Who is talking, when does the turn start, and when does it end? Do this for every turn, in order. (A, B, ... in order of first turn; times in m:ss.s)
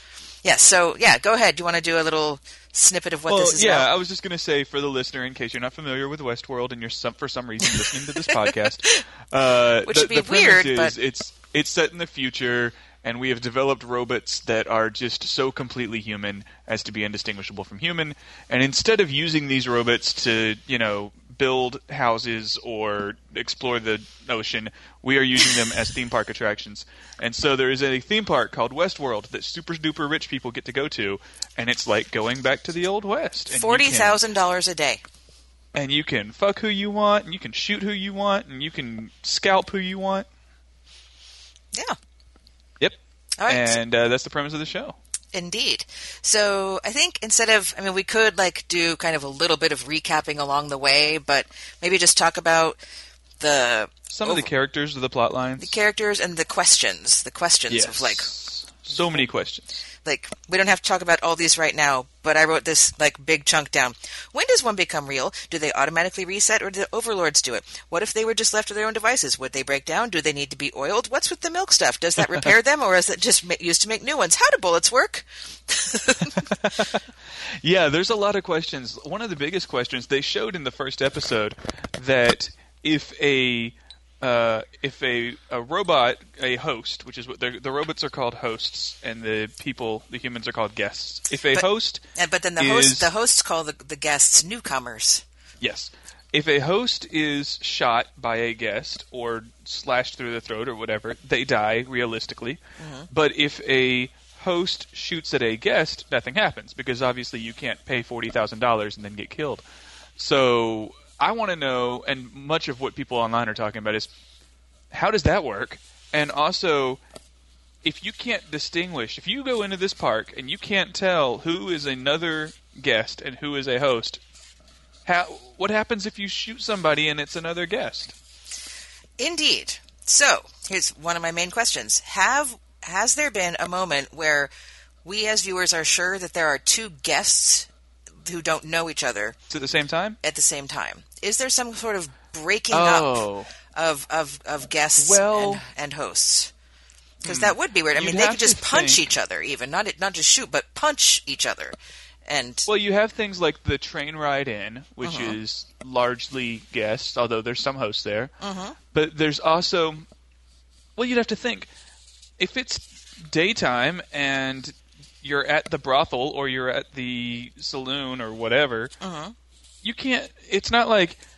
0:00.4-0:03.9 A
0:03.3-0:34.2 B
0:07.7-0:07.9 A
0:09.8-0:10.9 A
0:33.5-0:35.0 A
0:35.8-0:40.3 B
0:42.8-0:45.0 B
0:43.4-0:43.8 A
0:45.3-0:52.8 A
0:53.4-0:54.5 A
0:54.1-0:55.7 B
0:55.6-0:58.3 A
0:57.7-0:59.7 B
0:58.9-0:59.2 A
1:00.0-1:16.5 A
1:16.6-1:17.0 B
1:17.6-1:32.0 B
1:31.5-1:35.2 A
1:32.6-1:33.1 B
1:35.6-1:49.6 B
1:42.8-1:43.1 A
1:50.2-1:54.1 B
1:54.9-1:57.0 B
1:57.8-2:04.2 B
2:05.1-2:08.1 B
2:09.2-2:14.5 A
2:15.0-2:17.7 A
2:18.2-2:19.4 A
2:19.5-2:20.2 B
2:20.2-2:26.5 A
2:22.7-2:23.5 B
2:25.0-2:25.6 B
2:27.2-2:32.7 A
2:27.2-2:29.0 B
2:32.7-2:38.3 B
2:35.0-2:35.4 A
2:38.4-2:38.8 A
2:38.9-2:40.0 B
2:41.0-2:41.7 B
2:42.4-2:48.9 B
2:49.0-2:49.4 A
2:49.8-2:51.2 B